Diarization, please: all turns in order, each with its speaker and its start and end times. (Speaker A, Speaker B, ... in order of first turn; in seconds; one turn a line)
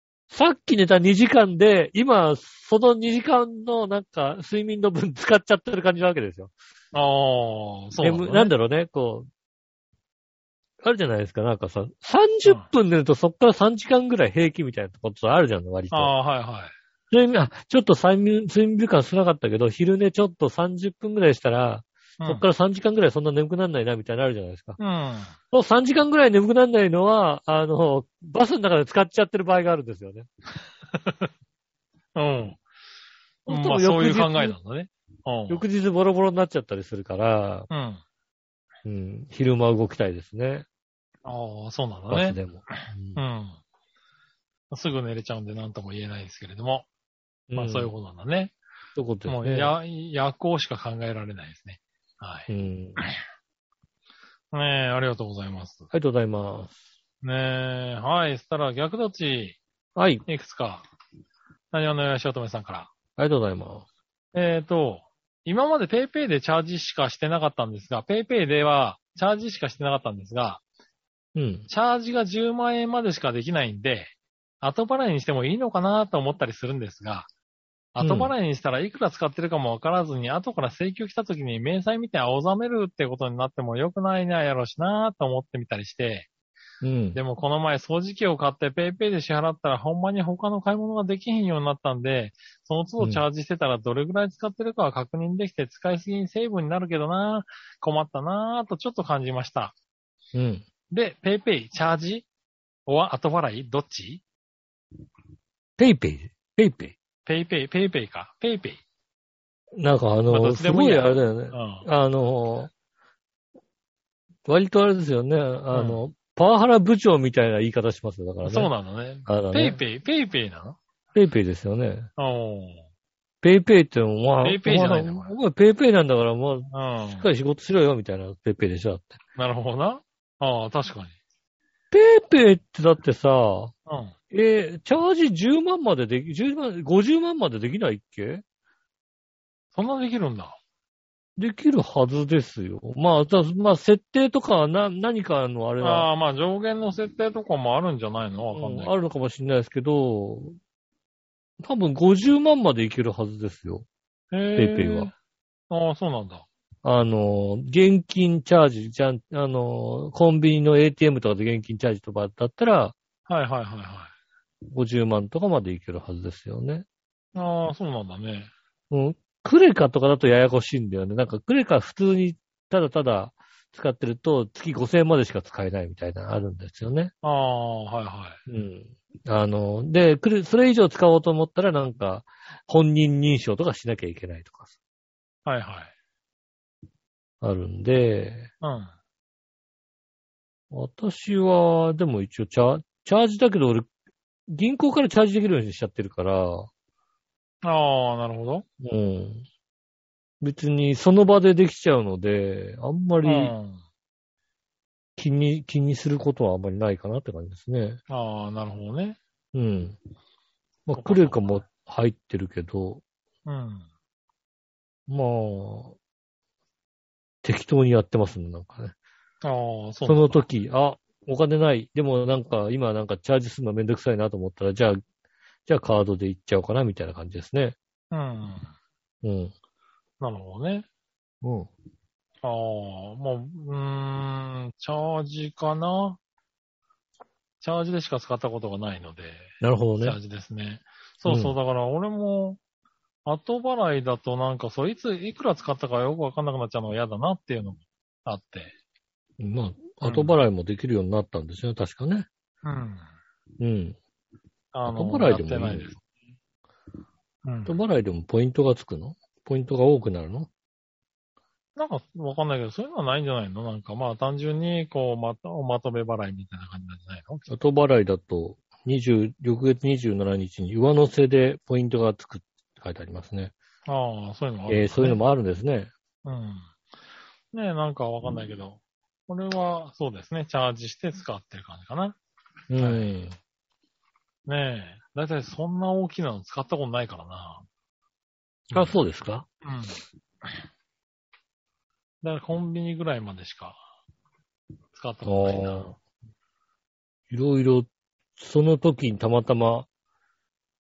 Speaker A: 0.3-6.5
Speaker B: 6.9-8.5
Speaker A: 8.0-9.3
Speaker A: 10.8-16.1
Speaker B: 15.9-16.7
Speaker A: 17.1-24.8
Speaker B: 24.8-25.3
Speaker A: 25.5-30.3
Speaker B: 30.9-31.3
Speaker B: 32.1-32.6
Speaker A: 33.5-34.5
Speaker B: 33.5-35.6
Speaker A: 35.5-37.7
Speaker B: 37.7-38.0
Speaker A: 38.8-40.6
Speaker B: 41.2-42.4
Speaker A: 42.1-43.2
Speaker B: 43.1-43.6
Speaker B: 44.7-46.9
Speaker A: 47.5-47.9
Speaker B: 47.5-48.5
Speaker A: 49.0-49.7
Speaker B: 49.3-52.5
Speaker A: 52.5-53.0
Speaker B: 54.5-55.9
Speaker A: 55.9-56.7
Speaker B: 57.2-59.6
Speaker A: 60.0-60.2
Speaker B: 60.3-60.9
Speaker B: 61.7-62.9
Speaker A: 63.2-63.9
Speaker B: 64.3-70.6
Speaker A: 71.3-71.7
Speaker B: 71.7-77.3
Speaker B: 77.9-86.3
Speaker A: 78.0-78.3
Speaker A: 86.8-87.2
Speaker B: 87.1-99.7
Speaker A: 93.0-93.2
Speaker A: 100.3-100.6
Speaker B: 100.9-102.2
Speaker B: 102.9-104.2
Speaker A: 105.8-107.0
Speaker B: 107.2-108.8
Speaker A: 109.8-112.7
Speaker B: 110.3-111.8
Speaker A: 114.5-118.7
Speaker B: 115.7-116.0
Speaker B: 118.4-120.8
Speaker A: 119.2-119.8
Speaker A: 121.1-122.1
Speaker B: 122.2-122.8
Speaker A: 123.4-129.2
Speaker B: 124.4-125.3
Speaker B: 126.7-127.2
Speaker B: 129.3-131.1
Speaker A: 131.9-133.7
Speaker B: 133.9-134.1
Speaker A: 134.3-138.4
Speaker B: 139.7-140.6
Speaker A: 141.4-146.1
Speaker B: 145.8-148.9
Speaker A: 148.5-150.6
Speaker A: 151.6-153.8
Speaker B: 154.3-155.1
Speaker A: 154.6-155.1
Speaker B: 155.7-156.4
Speaker A: 156.8-162.9
Speaker B: 163.3-164.1
Speaker A: 164.7-166.8
Speaker B: 167.3-168.5
Speaker A: 168.9-177.1
Speaker B: 177.2-178.4
Speaker A: 178.5-184.7
Speaker B: 185.4-185.9
Speaker A: 187.4-188.5
Speaker B: 188.6-188.9
Speaker A: 190.7-193.9
Speaker A: 194.5-196.7
Speaker B: 197.6-198.6
Speaker A: 198.8-199.4
Speaker A: 200.4-203.5
Speaker B: 203.2-203.8
Speaker A: 205.2-208.0
Speaker B: 208.1-209.2
Speaker A: 209.5-210.0
Speaker A: 210.8-213.0
Speaker B: 210.9-211.5
Speaker B: 213.4-213.8
Speaker A: 215.1-216.0
Speaker A: 217.4-218.9
Speaker B: 219.4-220.4
Speaker A: 220.0-225.0
Speaker A: 225.7-227.8
Speaker B: 228.1-228.7
Speaker A: 229.2-229.5
Speaker B: 230.2-230.8
Speaker A: 231.4-231.7
Speaker B: 232.4-236.2
Speaker B: 237.6-242.6
Speaker A: 239.6-240.2
Speaker A: 241.2-241.6
Speaker B: 243.2-248.7
Speaker A: 249.4-252.3
Speaker B: 250.0-250.4
Speaker B: 252.6-253.0
Speaker A: 253.6-254.0
Speaker B: 254.7-256.0
Speaker A: 254.8-255.9
Speaker B: 257.4-257.8
Speaker A: 257.6-260.5
Speaker B: 261.8-267.5
Speaker A: 267.5-273.5
Speaker B: 273.9-275.2
Speaker A: 274.7-275.9
Speaker B: 276.2-276.7
Speaker B: 277.5-282.2
Speaker A: 282.7-283.3
Speaker B: 282.8-283.2
Speaker B: 284.5-287.6
Speaker B: 288.7-289.0
Speaker A: 288.7-289.5
Speaker B: 289.6-290.0
Speaker B: 292.2-293.8
Speaker B: 294.9-295.9
Speaker A: 295.2-296.0
Speaker A: 297.3-299.9